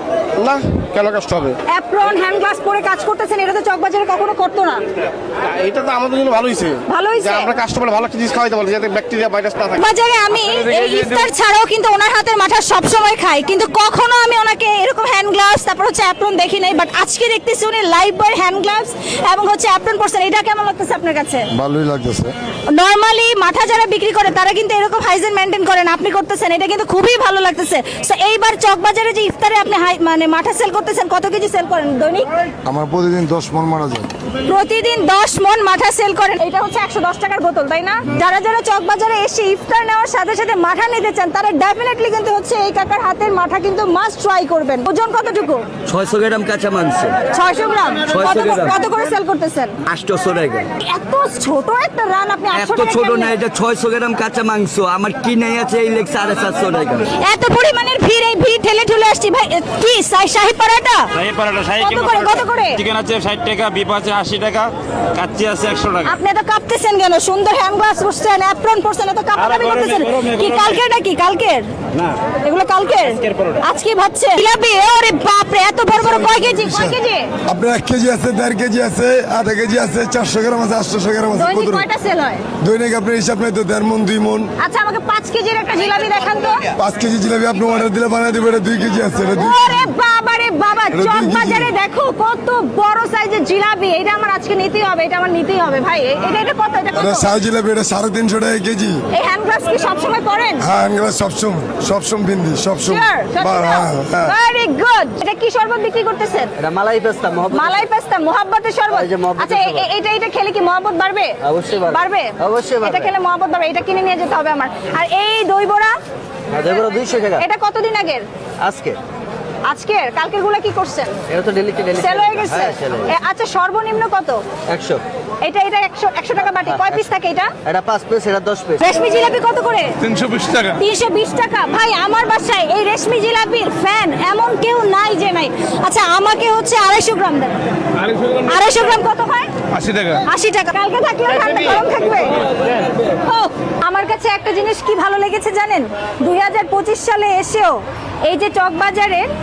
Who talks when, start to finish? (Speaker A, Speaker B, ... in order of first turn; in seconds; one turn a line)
Speaker A: 0.4-1.6
Speaker B: 1.7-4.8
Speaker A: 5.5-9.8
Speaker B: 6.9-7.6
Speaker B: 9.8-21.5
Speaker C: 21.5-22.3
Speaker B: 22.7-32.3
Speaker C: 32.6-34.1
Speaker B: 34.5-45.6
Speaker D: 45.9-47.2
Speaker B: 47.3-49.7
Speaker D: 48.1-48.8
Speaker D: 49.8-50.7
Speaker B: 50.8-53.4
Speaker D: 52.5-57.1
Speaker B: 57.2-61.1
Speaker E: 61.2-62.3
Speaker B: 61.8-62.8
Speaker E: 62.8-66.1
Speaker B: 66.0-71.7
Speaker B: 72.4-77.3
Speaker C: 75.9-81.8
Speaker B: 81.3-82.4
Speaker C: 82.6-84.5
Speaker B: 84.6-86.6
Speaker C: 86.8-89.9
Speaker B: 89.3-97.3
Speaker C: 90.9-91.7
Speaker C: 96.9-99.0
Speaker B: 99.1-100.7
Speaker C: 100.6-104.3
Speaker B: 102.8-106.5
Speaker F: 106.6-107.8
Speaker B: 107.5-115.9
Speaker F: 108.9-109.8
Speaker F: 111.4-113.1
Speaker F: 116.5-117.4
Speaker B: 117.4-118.2
Speaker F: 118.6-119.0
Speaker B: 119.7-121.1
Speaker F: 121.3-123.1
Speaker B: 121.9-124.4
Speaker F: 124.7-125.0
Speaker B: 125.4-127.5
Speaker F: 126.6-127.0
Speaker F: 127.7-128.8
Speaker B: 128.8-137.6
Speaker B: 138.3-139.5
Speaker B: 140.1-142.4
Speaker B: 143.2-149.2